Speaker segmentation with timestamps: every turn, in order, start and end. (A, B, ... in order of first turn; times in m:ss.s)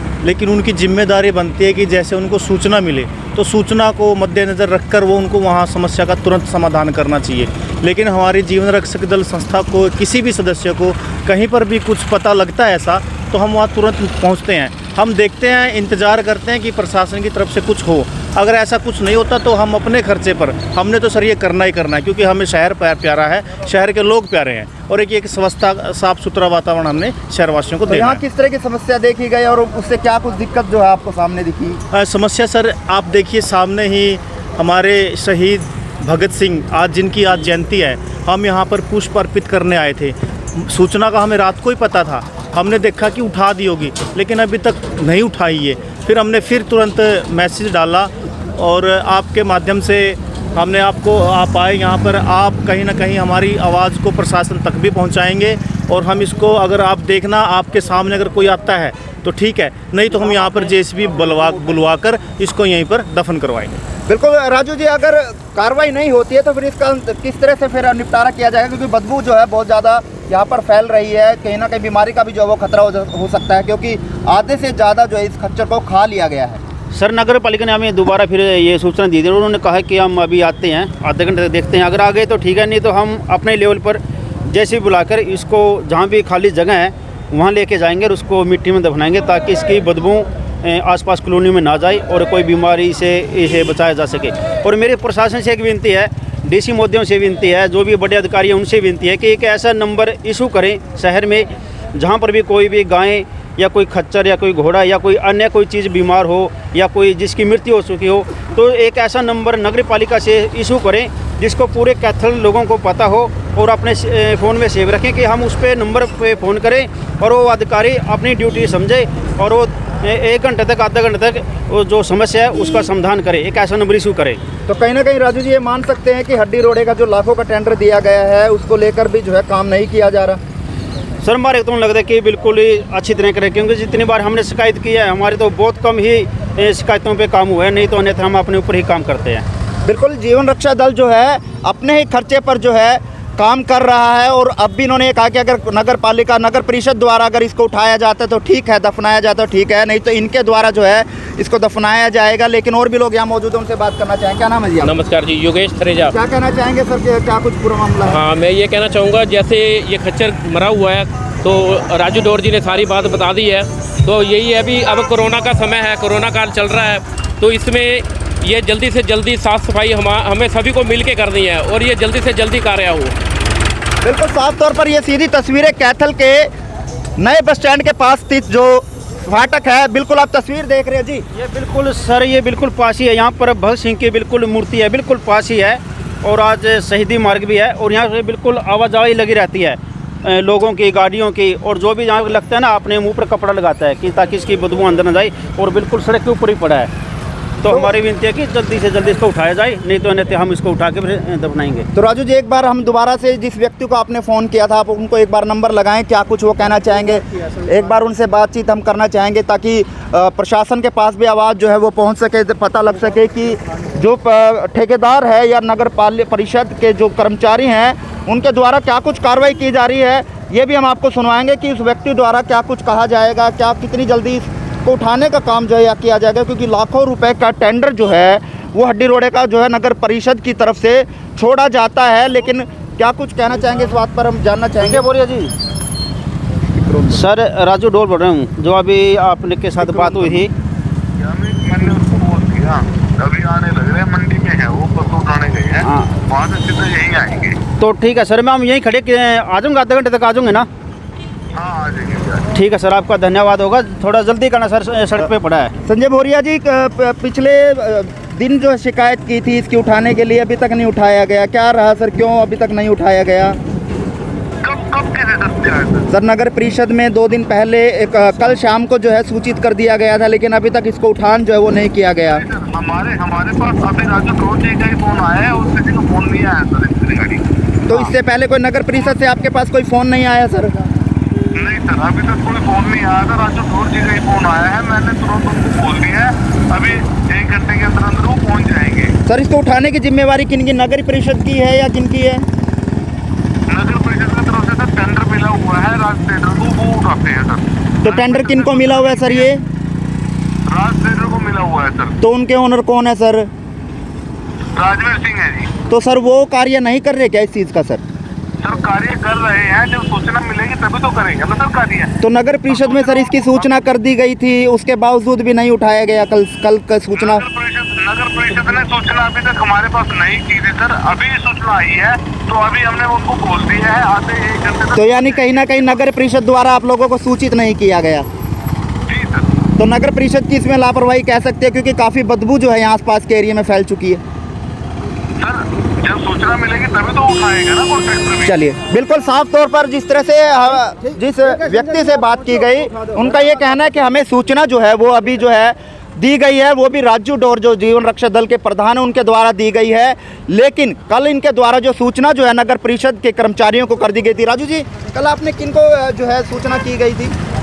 0:00.2-0:28.2 A
0:27.9-0:31.8 B
0:31.9-1:03.8 A
1:04.1-1:16.6 B
1:16.9-2:04.4 C
2:04.7-2:10.4 B
2:11.2-2:19.4 C
2:19.8-2:34.9 B
2:34.8-2:36.1 D
2:36.1-2:38.2 B
2:38.0-2:53.2 D
2:54.0-2:56.5 B
2:57.2-3:01.2 B
3:01.4-3:16.9 C
3:17.6-3:21.9 C
3:17.7-3:17.9 B
3:22.0-3:55.0 B
3:54.8-3:55.5 C
3:57.1-4:00.5 C
4:01.2-4:07.6 E
4:05.8-4:06.1 C
4:07.8-4:10.7 C
4:11.6-4:12.5 E
4:12.5-4:15.7 C
4:15.9-4:23.6 B
4:24.6-4:26.1 E
4:26.1-4:32.4 B
4:32.3-4:38.1 E
4:37.9-4:40.7 B
4:41.5-4:49.2 E
4:49.3-4:52.4 B
4:53.7-4:59.5 E
4:58.0-4:59.6 B
5:00.7-5:02.2 E
5:02.2-5:03.5 B
5:04.8-5:05.7 E
5:05.9-5:08.0 B
5:08.6-5:12.1 E
5:12.2-5:17.4 B
5:12.7-5:13.7 E
5:17.2-5:25.9 E
5:25.0-5:28.3 B
5:29.1-5:29.5 E
5:29.8-5:34.2 B
5:35.4-5:38.5 E
5:38.5-5:57.3 B